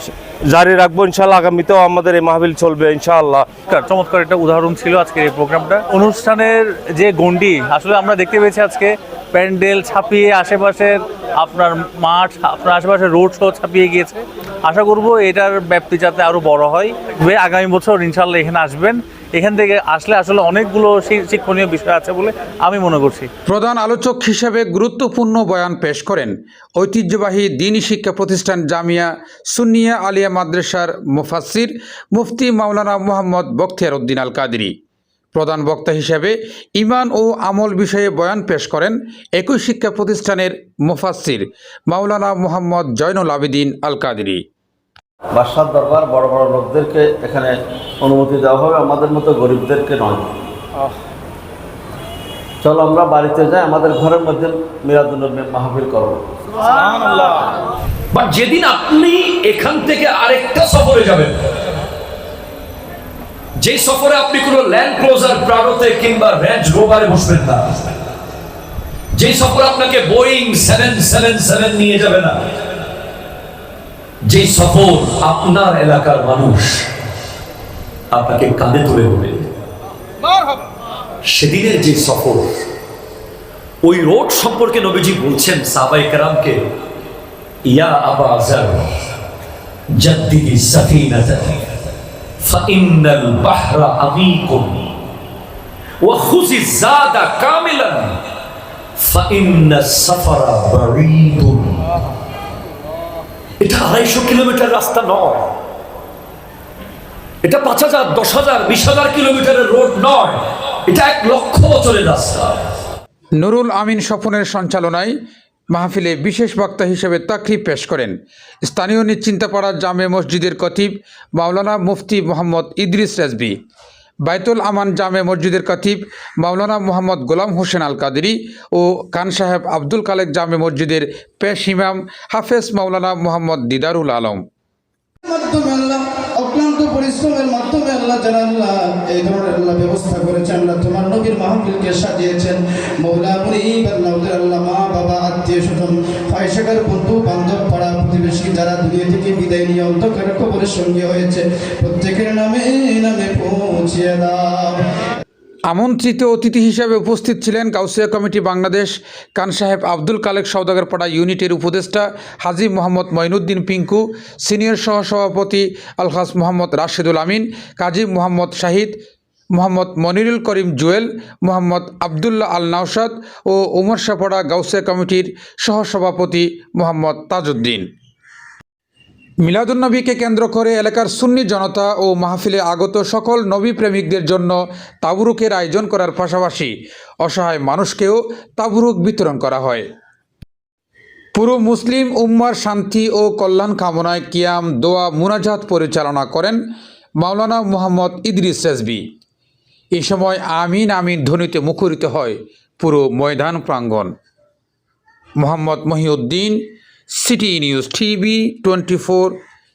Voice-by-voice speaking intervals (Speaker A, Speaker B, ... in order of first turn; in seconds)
Speaker A: 0.5-3.5
Speaker B: 3.7-23.3
Speaker C: 23.5-34.7, 35.3-44.4, 113.4-115.1, 115.7-123.5, 124.2-134.4, 155.7-168.9, 169.5-177.8, 179.4-189.8, 191.3-196.6, 197.2-199.0, 199.9-204.1, 205.4-206.6, 207.1-209.3
Speaker D: 45.3-50.3, 52.6-56.2
Speaker E: 58.1-61.5, 63.5-67.9, 69.1-72.4, 74.2-76.9, 78.1-79.5, 81.2-82.6, 83.8-86.6, 87.6-88.9, 89.9-91.6, 92.4-94.9, 96.0-98.2, 99.0-101.8, 103.6-105.5, 107.4-112.6
Speaker F: 135.2-154.8